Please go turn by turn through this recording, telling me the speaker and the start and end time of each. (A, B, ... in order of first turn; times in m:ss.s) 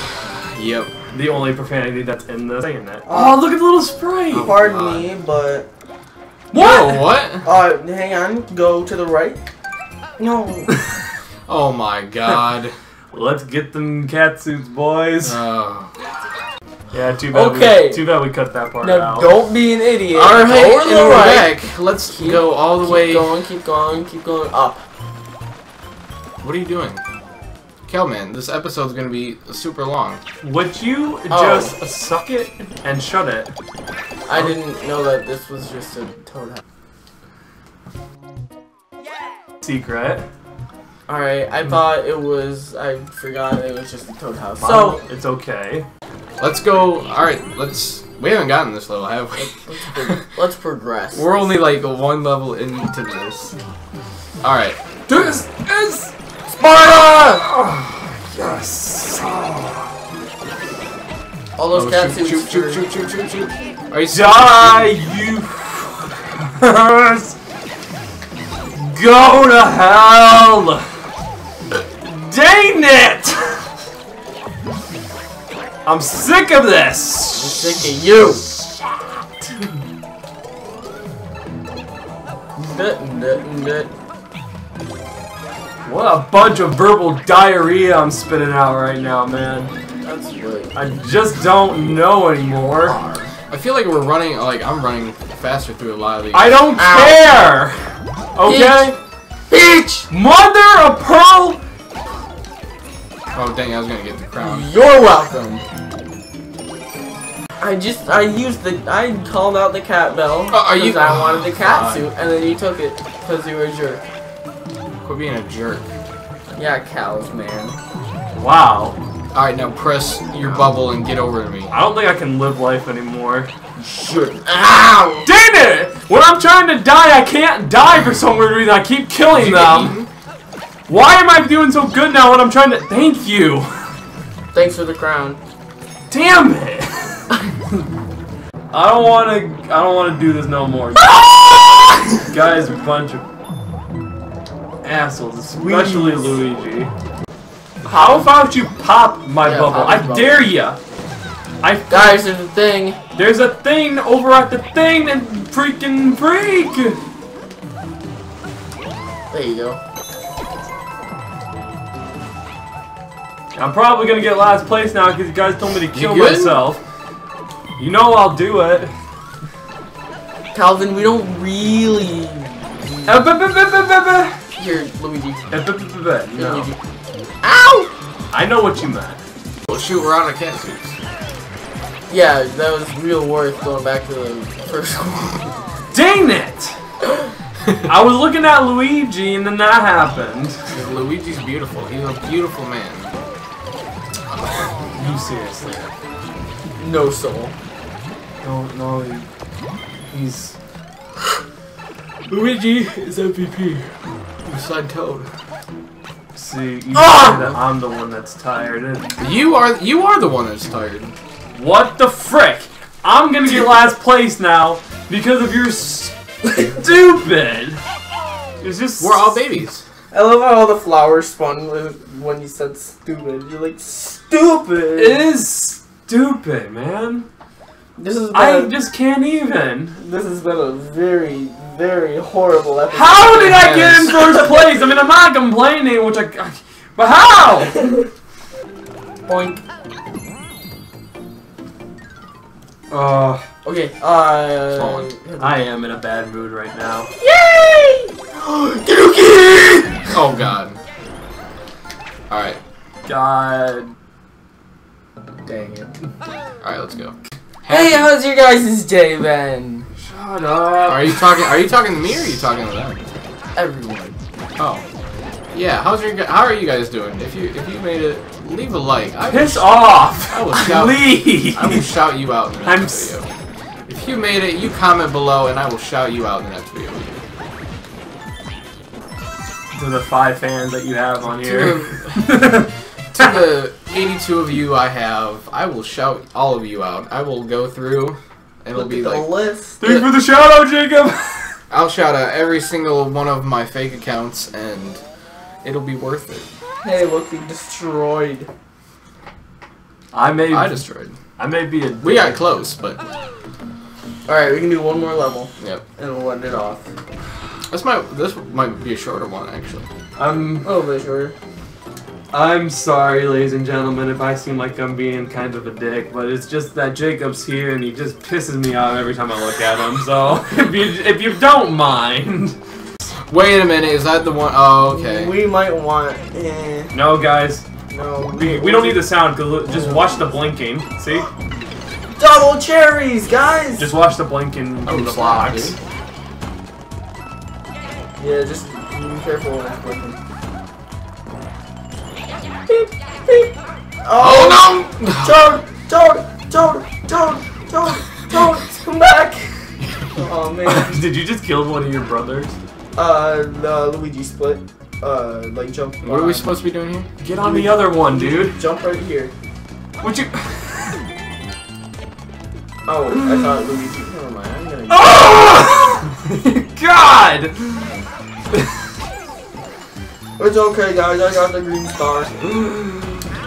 0:00.2-0:00.9 A
0:01.1-0:04.6 B
0:03.1-0:03.4 C
0:04.3-0:05.1 A
0:04.4-0:05.7 C
0:06.5-0:07.1 B
0:06.5-0:07.5 A
0:07.4-0:09.4 C
0:10.2-0:10.8 C
0:11.5-0:12.8 A
0:13.1-0:15.4 B
0:15.2-0:15.9 A
0:16.9-0:19.4 B
0:17.3-0:18.1 C
0:18.8-0:24.8 C
0:20.1-0:23.3 A
0:26.4-0:27.0 A
0:27.9-0:30.2 A
0:30.4-0:33.5 B
0:31.3-0:31.8 C
0:34.3-0:36.6 C
0:39.6-0:40.3 B
0:41.1-0:45.0 C
0:44.6-0:45.9 B
0:46.4-0:50.3 A
0:49.4-0:51.5 C
0:51.1-0:53.6 A
0:54.4-0:54.8 A
0:55.1-0:56.1 B
0:56.5-0:57.5 C
0:56.9-0:59.9 B
1:01.6-1:02.9 C
1:01.7-1:04.7 A
1:04.1-1:07.4 B
1:08.8-1:10.9 B
1:12.0-1:13.6 B
1:15.8-1:17.8 B
1:17.4-1:18.5 C
1:22.6-1:23.9 C
1:25.8-1:29.7 B
1:30.0-1:30.8 C
1:30.8-1:33.0 B
1:32.9-1:33.3 C
1:33.5-1:36.6 A
1:36.3-1:39.0 B
1:36.8-1:37.4 C
1:38.4-1:38.9 C
1:39.5-1:40.1 C
1:40.1-1:41.6 B
1:43.3-1:44.7 A
1:44.4-1:45.6 C
1:47.6-1:54.0 C
1:50.5-1:52.1 A
1:55.0-1:55.8 A
1:56.6-1:57.8 C
1:58.4-1:59.0 B
1:59.3-2:01.7 A
2:00.4-2:00.7 C
2:01.7-2:03.5 B
2:03.8-2:05.3 C
2:05.3-2:10.0 B
2:09.3-2:10.1 A
2:10.9-2:13.9 B
2:14.5-2:15.4 C
2:16.1-2:17.3 B
2:18.7-2:21.3 B
2:22.2-2:23.2 B
2:24.8-2:26.9 B
2:25.5-2:26.4 C
2:27.8-2:30.8 B
2:29.4-2:30.5 C
2:31.6-2:32.2 B
2:31.9-2:33.0 C
2:33.2-2:37.0 B
2:39.3-2:39.8 C
2:43.6-2:46.8 B
2:45.9-2:46.6 A
2:47.8-2:48.9 B
2:50.5-2:53.2 C
2:53.1-2:54.4 B
2:54.6-2:55.6 C
2:55.5-2:56.7 B
2:56.3-2:56.8 C
2:57.4-2:57.9 C
2:58.3-2:59.2 B
2:59.7-3:01.0 A
3:02.1-3:05.5 C
3:05.9-3:06.8 B
3:07.8-3:10.6 B
3:10.7-3:13.1 A
3:14.4-3:14.7 A
3:14.9-3:15.9 B
3:16.8-3:17.6 C
3:18.4-3:19.2 B
3:20.1-3:20.6 B
3:22.3-3:23.9 A
3:24.4-3:25.3 A
3:26.4-3:29.1 B
3:26.9-3:27.6 C
3:29.2-3:31.1 A
3:31.5-3:37.8 B
3:38.6-3:39.5 B
3:39.0-3:39.8 A
3:40.1-3:45.3 C
3:45.0-3:47.3 B
3:48.0-3:48.7 C
3:48.3-3:50.0 B
3:50.0-3:54.4 C
3:52.9-3:57.8 B
3:53.3-3:54.2 A
3:59.3-3:59.6 C
4:02.9-4:03.4 B
4:03.6-4:05.7 C
4:04.7-4:05.1 A
4:05.4-4:07.1 B
4:07.2-4:10.2 C
4:10.1-4:10.8 A
4:12.3-4:12.6 A
4:13.1-4:13.9 B
4:15.4-4:15.9 C
4:16.6-4:18.1 A
4:17.7-4:19.9 C
4:20.0-4:21.5 B
4:20.9-4:23.0 A
4:23.6-4:24.2 C
4:24.6-4:24.8 A
4:25.5-4:33.3 A
4:29.3-4:31.9 B
4:32.6-4:33.2 B
4:33.9-4:37.2 A
4:39.7-4:42.7 B
4:41.2-4:42.4 A
4:43.1-4:49.3 A
4:48.7-4:50.1 C
4:49.8-4:51.6 B
4:51.7-4:55.0 A
4:55.6-4:56.5 A
4:56.8-4:58.5 C
5:00.1-5:00.8 B
5:00.5-5:01.2 A
5:01.4-5:02.4 B
5:02.0-5:03.0 A
5:04.3-5:06.9 C
5:07.7-5:09.8 A
5:10.2-5:10.7 B
5:10.6-5:11.4 C
5:12.3-5:22.6 B
5:23.3-5:25.4 A
5:24.8-5:26.9 C
5:26.9-5:27.6 B
5:27.9-5:30.4 C
5:28.3-5:31.3 B
5:32.2-5:33.9 C
5:33.8-5:35.8 B
5:34.8-5:35.8 A
5:38.2-5:40.2 C
5:42.7-5:49.5 C
5:44.2-5:45.4 A
5:50.1-5:51.0 C
5:50.6-5:52.6 B
5:53.0-5:56.6 C
5:56.0-5:57.1 A
5:57.2-5:58.6 B
5:57.4-5:59.3 C
6:00.0-6:01.1 B
6:02.9-6:06.0 C
6:03.2-6:03.5 B
6:04.9-6:07.9 B
6:10.4-6:12.4 C
6:12.5-6:13.2 B